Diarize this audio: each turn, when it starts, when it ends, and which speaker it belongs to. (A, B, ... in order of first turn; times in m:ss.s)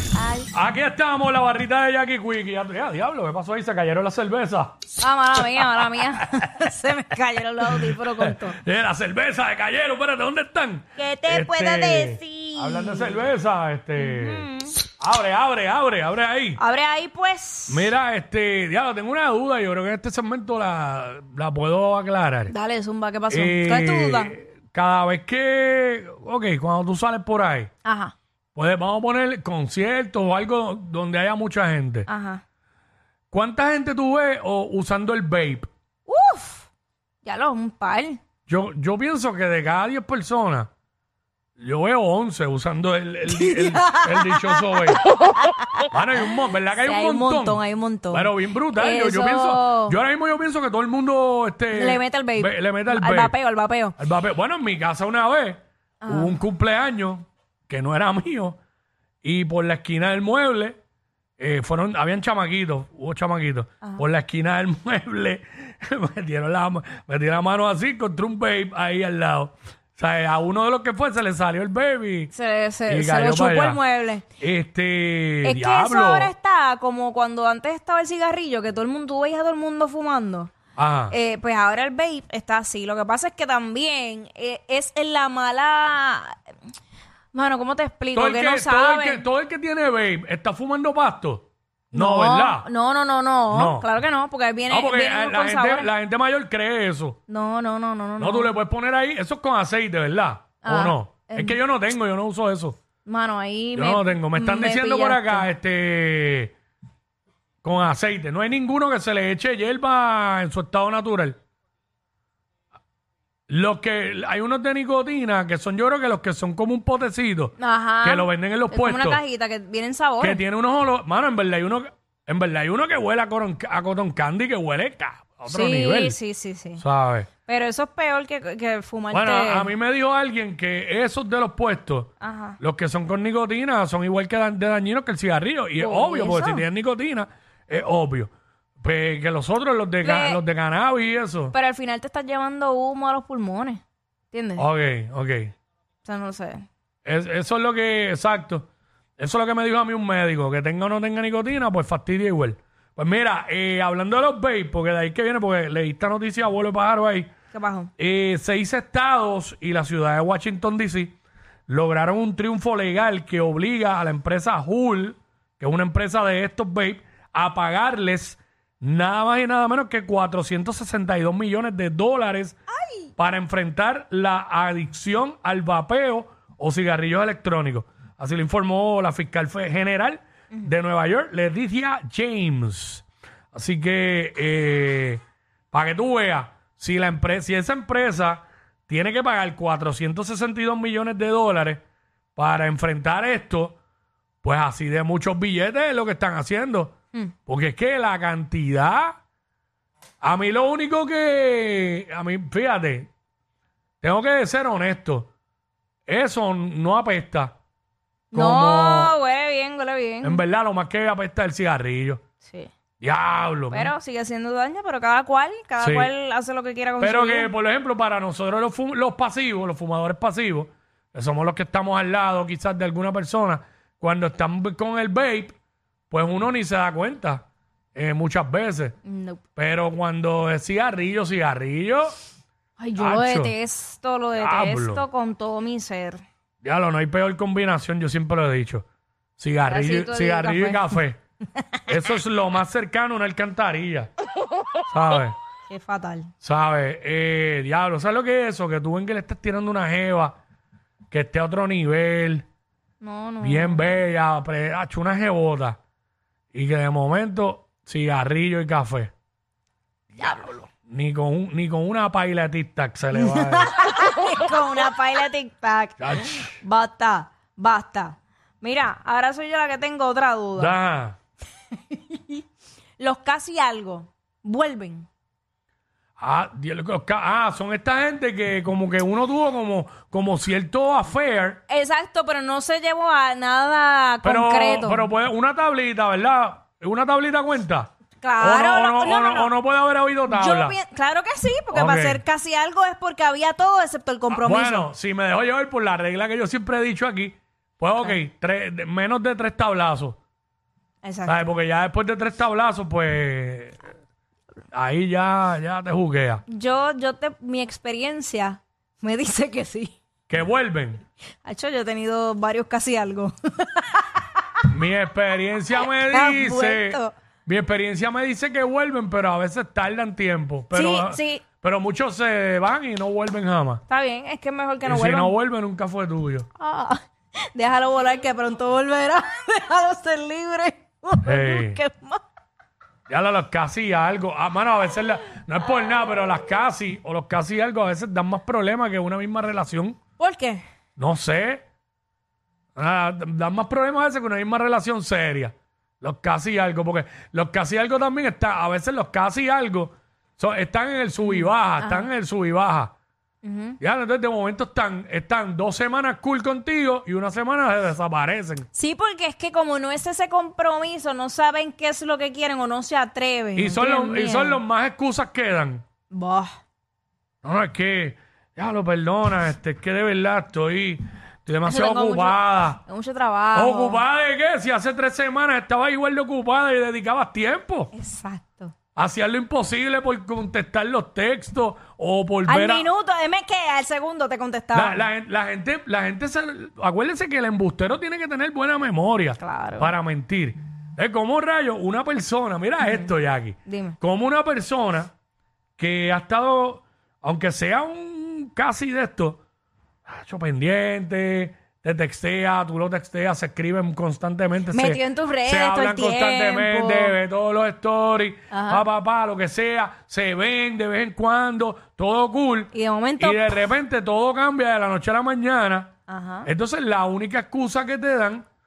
0:00.1-0:00.5 A
0:00.5-0:04.8 B
0:05.0-0:08.6 A
0:07.6-0:16.6 B
0:11.0-0:13.2 A
0:14.0-0:14.8 A
0:16.6-0:17.9 A
0:17.7-0:22.5 B
0:22.5-0:24.4 A
0:23.3-0:27.7 B
0:27.8-0:28.1 A
0:28.5-0:32.1 B
0:32.1-0:32.4 A
0:33.3-0:35.7 B
0:36.1-0:36.6 A
0:37.2-0:38.2 A
0:38.5-0:40.7 B
0:41.6-0:45.0 B
0:43.3-0:45.4 A
0:45.9-0:47.6 B
0:46.8-0:50.0 A
0:48.1-0:53.3 B
0:51.7-0:54.0 A
0:54.0-0:58.6 B
0:56.0-0:56.4 A
0:59.2-1:00.8 B
1:01.4-1:12.3 B
1:12.3-1:14.2 A
1:12.9-1:13.8 B
1:14.4-1:16.3 B
1:15.4-1:20.5 A
1:20.8-1:21.2 B
1:21.1-1:26.4 A
1:27.3-1:29.3 A
1:28.1-1:32.7 B
1:31.9-1:35.9 A
1:33.5-1:33.9 B
1:34.7-1:37.2 B
1:37.3-1:38.5 A
1:38.2-1:42.8 B
1:40.6-1:41.6 A
1:43.0-1:45.5 A
1:43.7-1:46.5 B
1:47.6-1:51.4 B
1:53.5-1:59.2 B
1:57.6-2:00.4 A
2:00.2-2:06.2 B
2:05.5-2:06.8 A
2:06.8-2:07.3 B
2:07.4-2:09.7 A
2:09.1-2:21.5 B
2:12.2-2:12.6 A
2:15.8-2:16.6 A
2:20.0-2:20.4 A
2:21.5-2:23.8 A
2:24.3-2:24.7 A
2:24.6-2:25.5 B
2:26.0-2:26.7 A
2:27.0-2:28.7 B
2:29.2-2:37.3 B
2:37.5-2:37.9 A
2:38.0-2:41.2 B
2:41.7-2:52.6 B
2:52.8-2:53.1 A
2:53.2-3:05.2 B
3:05.7-3:11.8 B
3:12.4-3:13.8 B
3:14.4-3:19.2 B
3:20.2-3:23.1 B
3:24.0-3:25.3 B
3:26.1-3:27.6 B
3:28.3-3:29.1 B
3:28.3-3:30.4 A
3:30.2-3:32.2 B
3:32.4-3:32.7 A
3:33.0-3:33.9 B
3:33.7-3:37.5 A
3:35.8-3:36.1 B
3:37.0-3:45.6 B
3:46.1-3:49.0 B
3:49.0-3:49.4 A
3:49.6-3:52.2 B
3:52.8-3:56.2 A
3:53.0-3:53.5 B
3:54.3-3:55.0 B
3:56.6-3:58.8 B
3:59.4-4:01.2 B
3:59.7-4:01.0 A
4:01.9-4:04.1 B
4:04.9-4:05.4 B
4:05.7-4:06.3 A
4:06.4-4:10.4 B
4:11.1-4:12.4 B
4:13.0-4:13.9 A
4:13.4-4:15.8 B
4:16.5-4:19.1 B
4:20.1-4:23.8 B
4:20.2-4:20.6 A
4:23.1-4:30.8 A
4:26.0-4:26.6 B
4:30.6-4:31.2 B
4:31.9-4:32.4 A
4:33.0-4:35.1 A
4:36.2-4:41.6 B
4:41.7-4:45.1 A
4:44.2-4:50.8 B
4:48.2-4:49.5 A
4:50.3-4:54.9 A
4:51.7-4:52.2 B
4:54.3-5:00.2 B
5:01.0-5:01.5 A
5:01.2-5:03.8 B
5:04.7-5:06.4 B
5:06.5-5:09.9 A
5:10.3-5:11.0 B
5:11.4-5:14.6 A
5:14.7-5:23.8 B
5:15.8-5:17.1 A
5:20.7-5:21.4 A
5:23.9-5:25.4 A
5:24.8-5:26.5 B
5:26.6-5:27.0 A
5:27.5-5:32.2 A
5:31.2-5:31.8 B
5:33.1-5:40.0 B
5:40.2-5:40.6 A
5:41.0-5:41.6 B
5:42.8-5:52.9 B
5:51.2-5:52.1 A
5:53.4-5:53.8 A
5:53.8-5:58.7 B
5:58.7-6:04.6 A
6:03.6-6:05.8 B
6:06.1-6:06.5 A
6:07.4-6:12.8 B
6:11.6-6:14.0 A
6:13.5-6:17.9 B
6:17.9-6:18.7 A
6:19.0-6:22.9 B
6:22.5-6:25.1 A
6:24.7-6:35.1 B
6:29.4-6:29.9 A
6:32.8-6:33.1 A
6:33.6-6:34.0 A
6:35.8-6:39.4 B
6:40.1-6:58.4 B
6:44.7-6:47.2 A
6:48.5-6:48.8 A
6:52.7-6:53.6 A
6:56.1-6:56.5 A